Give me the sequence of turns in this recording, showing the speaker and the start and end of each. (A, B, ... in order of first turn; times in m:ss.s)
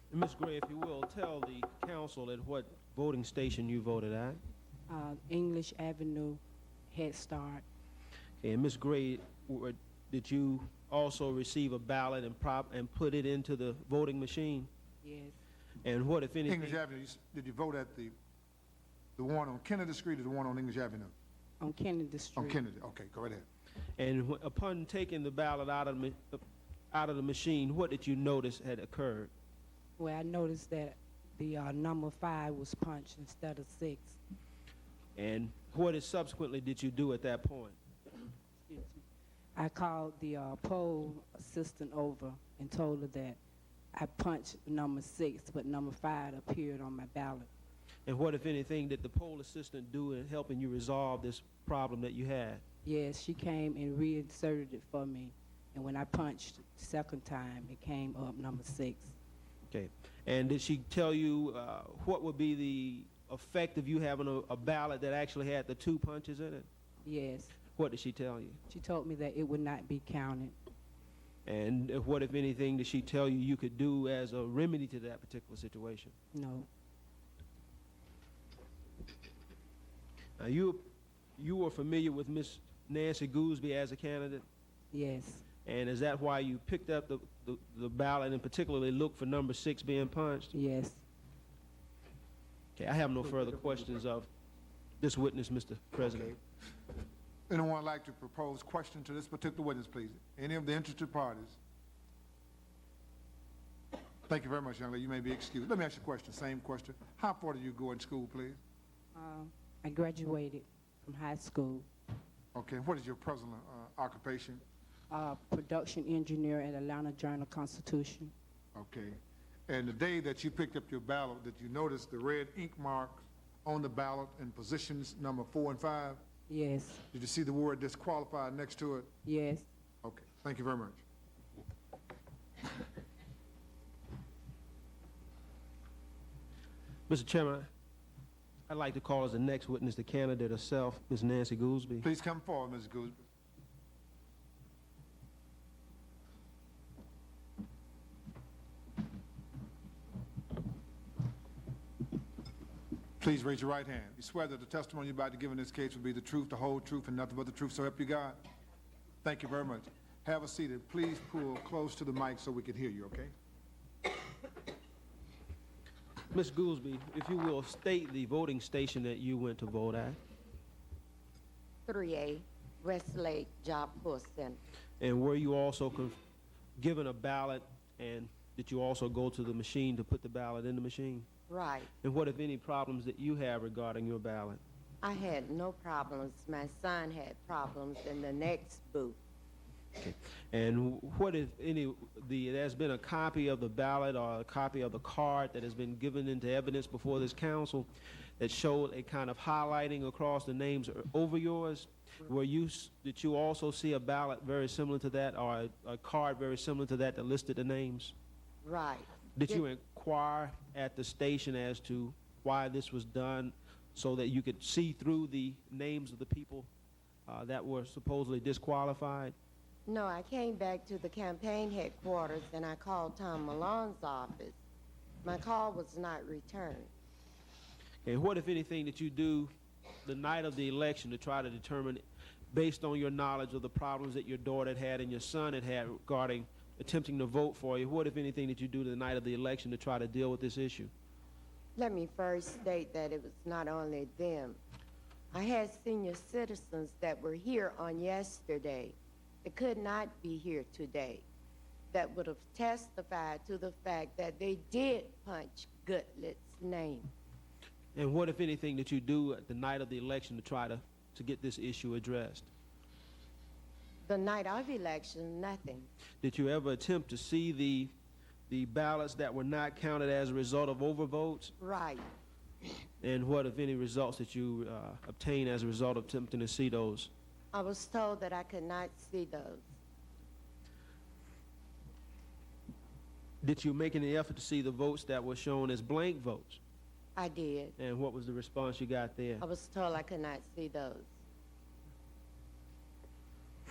0:00.1-0:04.4 A
0:04.9-0:07.6 B
0:08.4-0:14.7 A
0:15.0-0:15.3 B
0:15.8-0:16.8 A
0:16.5-0:18.1 C
0:19.2-0:21.1 C
0:21.6-0:22.6 B
0:22.4-0:23.4 C
0:24.0-0:26.4 A
0:26.9-0:29.3 A
0:30.0-0:34.2 B
0:35.2-0:37.8 A
0:38.7-0:39.0 B
0:39.6-0:43.4 B
0:43.9-0:47.5 B
0:48.0-0:52.6 A
0:52.8-0:59.2 B
0:59.7-1:06.7 A
1:07.0-1:07.6 B
1:07.7-1:08.6 A
1:08.7-1:10.6 B
1:11.4-1:16.1 A
1:16.3-1:16.7 B
1:20.4-1:24.4 A
1:24.9-1:25.4 B
1:25.6-1:30.5 A
1:30.5-1:31.0 B
1:32.8-1:34.3 A
1:35.0-1:36.4 A
1:36.0-1:36.3 C
1:37.5-1:41.6 C
1:44.3-1:48.6 C
1:49.1-1:51.9 B
1:52.5-1:54.6 C
1:55.1-1:58.3 B
1:58.7-2:06.2 C
2:06.5-2:07.0 B
2:07.1-2:09.1 C
2:09.2-2:09.7 B
2:10.0-2:11.0 C
2:17.1-2:17.7 A
2:18.7-2:22.1 A
2:22.0-2:23.2 C
2:33.2-2:38.4 C
2:39.2-2:43.3 C
2:46.3-2:50.2 A
2:51.8-2:54.6 D
2:55.0-2:56.2 A
2:56.8-3:01.3 A
3:01.5-3:01.9 D
3:02.0-3:04.6 A
3:05.0-3:09.2 D
3:10.0-3:28.1 A
3:28.6-3:29.6 D
3:29.4-3:36.7 A
3:37.3-3:39.3 A
3:39.8-3:44.6 D
3:45.2-3:46.9 D
3:48.0-3:49.5 A
3:50.0-4:00.9 A
4:01.8-4:04.6 D
4:05.3-4:11.2 D
4:11.9-4:17.1 D
4:17.9-4:22.5 A
4:24.0-4:25.9 D
4:26.2-4:27.9 A
4:28.5-4:31.5 A
4:31.6-4:32.1 D
4:33.0-4:37.1 A
4:37.5-4:39.7 D
4:43.4-4:46.6 A
4:47.2-4:47.7 D
4:47.8-4:49.4 A
4:49.4-4:51.1 D